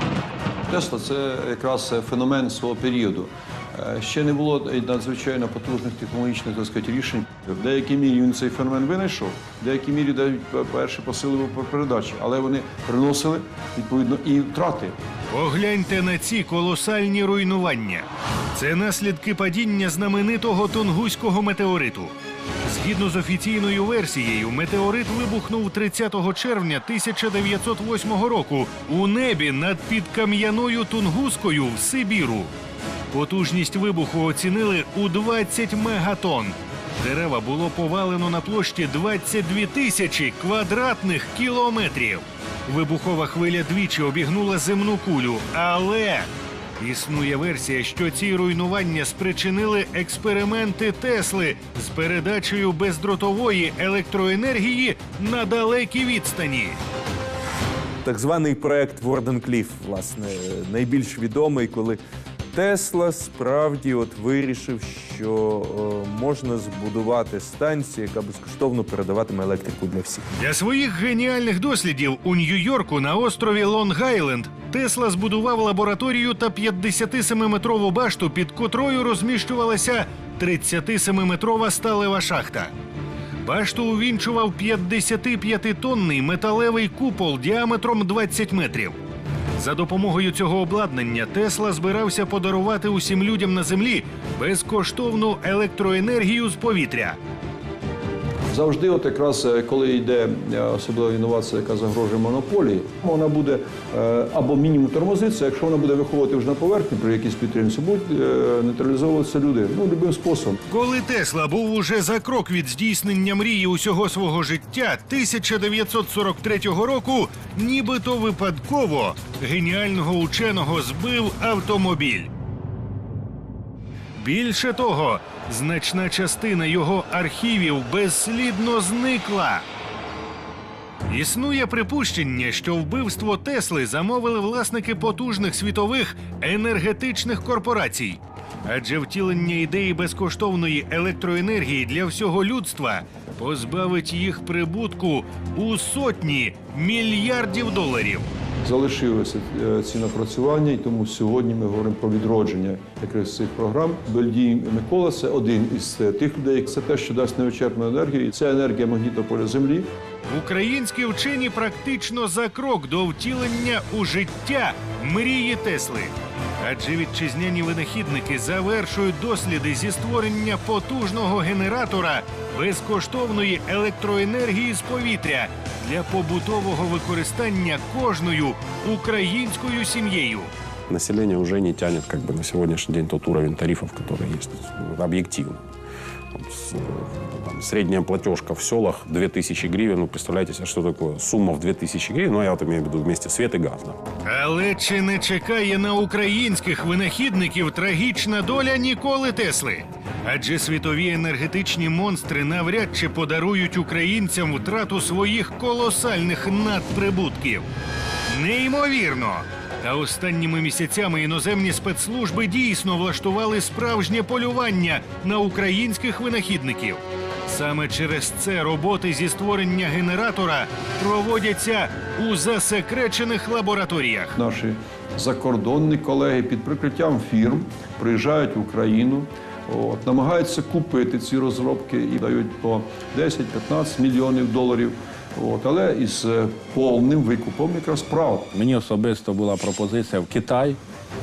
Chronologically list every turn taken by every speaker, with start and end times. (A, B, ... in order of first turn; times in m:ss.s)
0:00.7-0:15.0 A
0:15.3-0:22.1 B
0:22.6-0:32.5 B
0:33.1-0:56.8 B
0:58.0-1:02.0 C
1:02.5-1:10.2 C
1:10.4-1:22.7 B
1:23.4-1:29.0 B
1:29.6-1:37.2 B
1:38.5-1:50.6 A
1:50.7-2:02.3 B
2:04.2-2:09.6 B
2:11.1-2:28.3 B
2:28.6-2:39.9 A
2:40.3-3:00.5 B
3:00.9-3:05.6 D
3:06.3-3:14.0 D
3:14.2-3:27.7 B
3:28.3-3:44.3 B
3:44.4-3:58.5 A
3:58.5-4:00.8 E